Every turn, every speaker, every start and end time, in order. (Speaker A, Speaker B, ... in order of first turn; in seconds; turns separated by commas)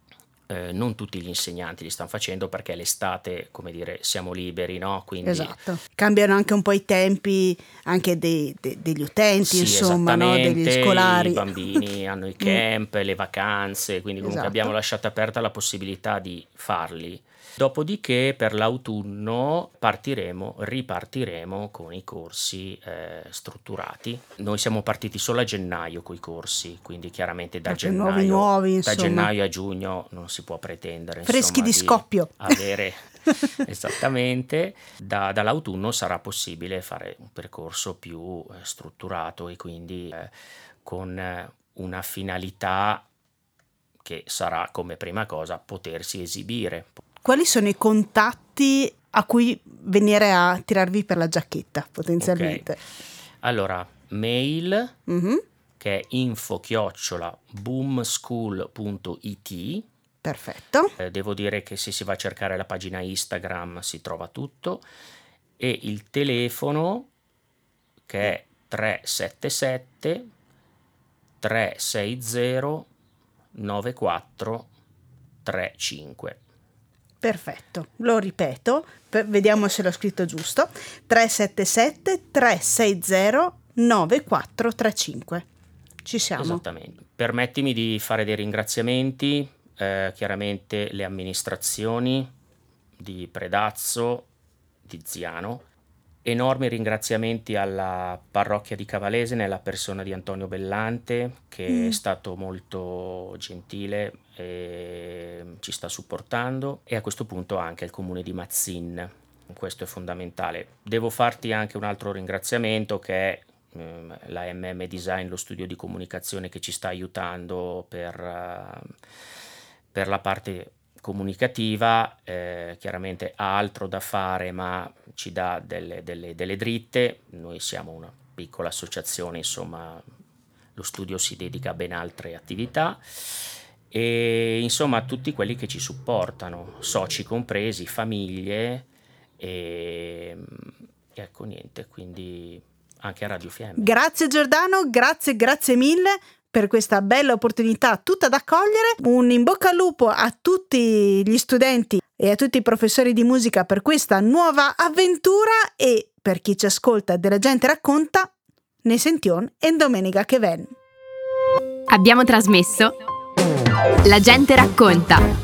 Speaker A: 0.5-5.6, Speaker B: 5.2-11.6, Speaker A: 9.4-33.0, Speaker B: 14.2-14.7, Speaker B: 27.7-29.3, Speaker B: 31.2-32.6, Speaker A: 33.6-40.3, Speaker A: 40.9-43.1, Speaker A: 44.0-47.0, Speaker B: 47.2-52.8, Speaker A: 52.2-52.7, Speaker A: 53.4-55.0, Speaker B: 55.1-55.4, Speaker A: 55.8-59.9, Speaker B: 60.2-60.9, Speaker A: 61.0-64.8, Speaker A: 65.6-67.1, Speaker A: 68.1-70.3, Speaker A: 71.4-72.9, Speaker A: 73.5-74.7, Speaker A: 75.5-76.4, Speaker B: 77.2-85.5, Speaker B: 86.0-86.6, Speaker A: 86.4-92.3, Speaker A: 93.0-94.3, Speaker A: 94.8-95.6, Speaker A: 96.2-118.9, Speaker B: 101.7-102.0, Speaker A: 119.9-130.0, Speaker A: 130.8-133.3, Speaker A: 133.9-138.9, Speaker A: 139.4-143.9, Speaker B: 143.8-158.3, Speaker B: 158.8-160.7, Speaker C: 161.9-162.9, Speaker C: 164.1-165.3